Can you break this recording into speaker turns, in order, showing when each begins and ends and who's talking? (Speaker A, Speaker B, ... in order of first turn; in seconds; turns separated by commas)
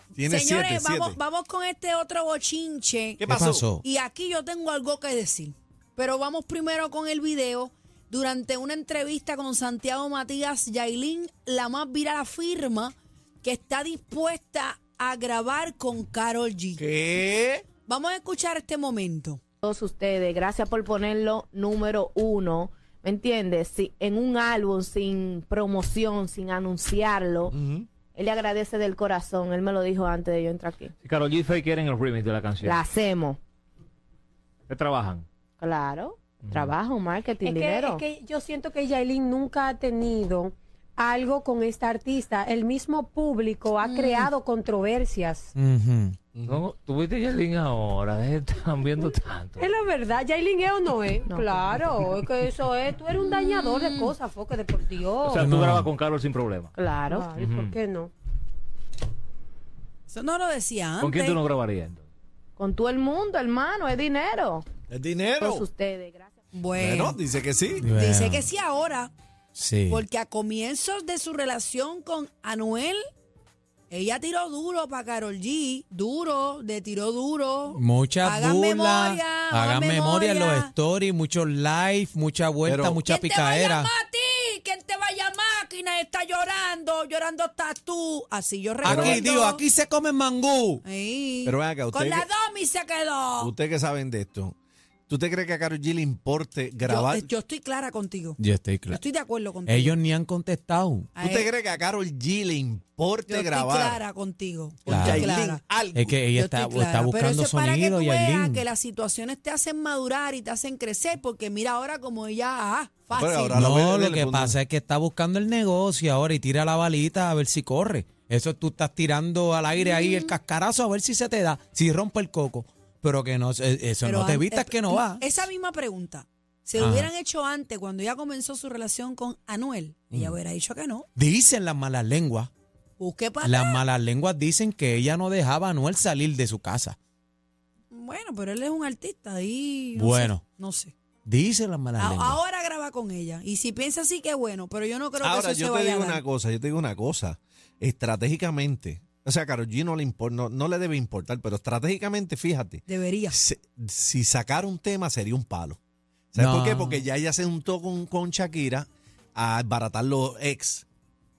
Speaker A: 0.1-1.2, Speaker B: 0.2-3.2, Speaker A: 3.2-3.6, Speaker C: 3.2-3.8, Speaker B: 3.8-16.8, Speaker A: 16.8-17.6, Speaker B: 17.9-19.4, Speaker D: 19.6-27.6, Speaker A: 27.5-27.9, Speaker D: 28.1-30.9, Speaker E: 31.0-32.8, Speaker D: 32.6-33.4, Speaker E: 34.7-35.2, Speaker D: 35.6-38.0, Speaker E: 36.4-36.8, Speaker F: 37.4-45.5, Speaker B: 43.8-44.3, Speaker C: 45.6-46.2, Speaker A: 46.4-46.6, Speaker E: 46.5-49.7, Speaker F: 49.6-55.4, Speaker D: 51.2-51.9, Speaker B: 53.3-54.1, Speaker E: 55.2-56.7, Speaker C: 55.4-55.9, Speaker D: 56.8-57.3, Speaker F: 57.1-58.1, Speaker E: 57.4-57.8, Speaker B: 60.1-61.4, Speaker E: 61.0-62.0, Speaker D: 62.6-64.7, Speaker A: 64.9-65.7, Speaker D: 65.4-66.3, Speaker B: 66.5-67.2, Speaker A: 66.8-67.8, Speaker C: 67.8-68.5, Speaker B: 67.8-69.1, Speaker C: 69.5-70.1, Speaker B: 69.9-73.0, Speaker B: 73.9-80.7, Speaker C: 77.7-83.9, Speaker A: 82.6-83.0, Speaker B: 83.0-89.6, Speaker C: 88.8-90.8, Speaker A: 88.8-89.2, Speaker B: 90.8-93.5, Speaker A: 91.4-92.3, Speaker A: 93.4-94.6, Speaker A: 95.1-97.3, Speaker B: 96.8-100.0, Speaker C: 98.4-99.0, Speaker C: 99.6-101.1, Speaker B: 101.2-101.5, Speaker A: 101.2-104.0, Speaker B: 103.3-105.6, Speaker A: 104.8-106.2, Speaker C: 104.9-105.3, Speaker C: 106.0-108.6, Speaker B: 106.3-113.6, Speaker A: 113.1-114.6, Speaker C: 113.5-125.5, Speaker B: 119.8-120.4, Speaker B: 124.0-131.1, Speaker C: 126.8-127.1, Speaker C: 131.2-132.5, Speaker B: 133.0-133.8, Speaker C: 133.4-137.0, Speaker B: 137.9-140.9, Speaker C: 140.0-140.4, Speaker C: 141.2-142.4, Speaker B: 142.0-146.2, Speaker A: 145.2-155.8, Speaker B: 152.9-153.4, Speaker A: 156.3-160.9, Speaker C: 156.4-157.1